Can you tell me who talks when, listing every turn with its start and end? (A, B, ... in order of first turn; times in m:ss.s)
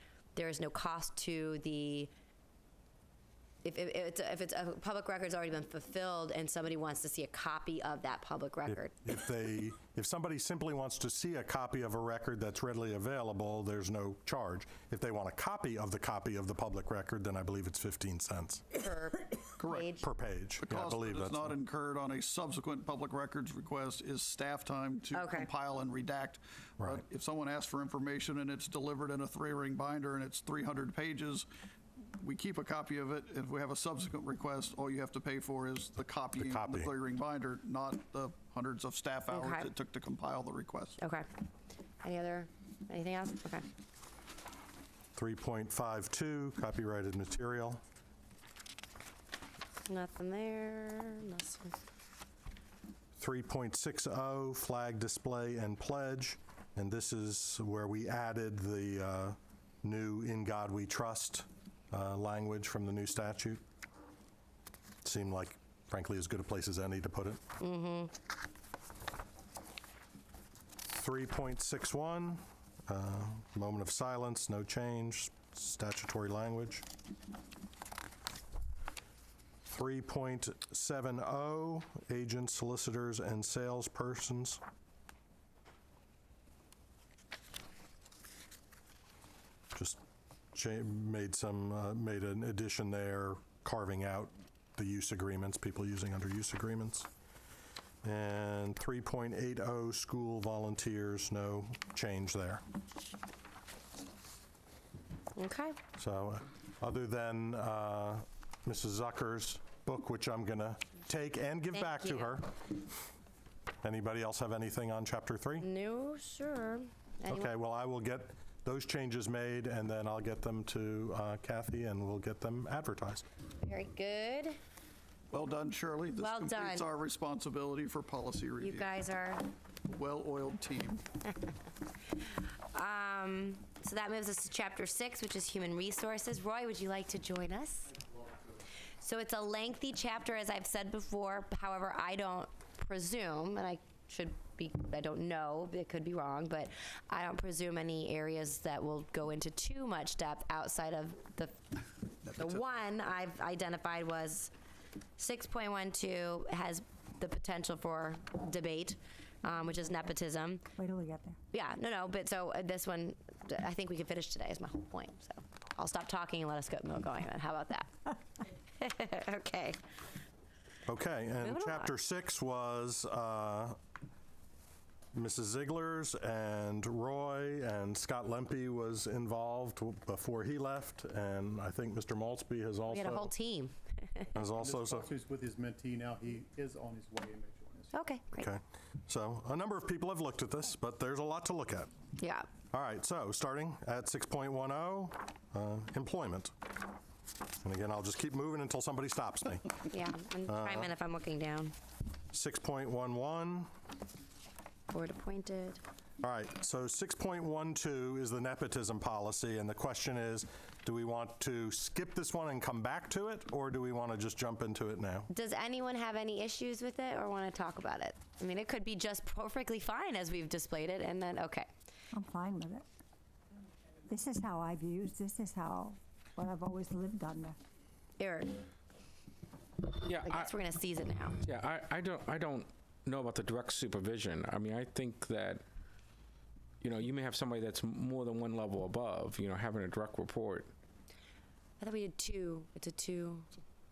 0:00.3-0:02.1 A
0:03.6-0:08.9 A
0:08.6-0:18.7 B
0:18.8-0:20.0 A
0:19.6-0:19.9 C
0:20.0-0:21.5 B
0:20.6-0:31.5 C
0:25.1-0:25.5 A
0:32.2-0:41.0 C
0:36.4-0:36.9 B
0:39.3-0:39.6 A
0:41.0-0:41.2 A
0:42.0-0:43.6 A
0:45.1-0:47.8 B
0:49.9-0:51.8 A
0:53.2-1:03.6 B
1:05.0-1:07.4 B
1:07.6-1:08.1 A
1:10.9-1:16.8 B
1:19.6-1:24.6 B
1:29.7-1:30.0 B
1:30.5-1:37.1 B
1:38.0-1:42.6 B
1:45.4-1:45.8 A
1:46.0-1:52.5 B
1:51.7-1:52.3 A
1:53.8-1:55.6 B
1:55.6-1:57.5 A
1:57.3-2:03.2 B
2:03.6-2:04.6 A
2:05.3-2:08.9 C
2:06.2-2:06.8 A
2:08.6-2:09.4 A
2:09.9-2:11.0 C
2:12.7-2:18.0 A
2:19.0-2:31.6 A
2:32.3-2:34.5 A
2:35.2-2:40.7 A
2:40.8-2:41.4 D
2:41.5-2:47.9 A
2:48.8-2:49.8 A
2:50.8-2:53.8 B
2:51.4-2:51.8 A
2:55.1-3:03.3 B
3:02.9-3:04.3 A
3:04.3-3:05.1 B
3:04.6-3:07.9 E
3:07.9-3:08.5 A
3:08.4-3:11.9 B
3:12.2-3:12.5 A
3:12.7-3:16.5 B
3:17.6-3:19.9 B
3:19.9-3:21.7 A
3:20.4-3:20.9 B
3:22.3-3:23.7 B
3:24.9-3:25.8 A
3:26.2-3:35.3 B
3:35.3-3:41.7 A
3:42.1-3:42.8 D
3:44.1-3:47.6 D
3:48.2-3:48.5 A
3:50.0-3:50.5 F
3:50.2-3:51.4 A
3:51.4-3:55.6 F
3:56.8-4:00.7 F
4:01.8-4:03.5 A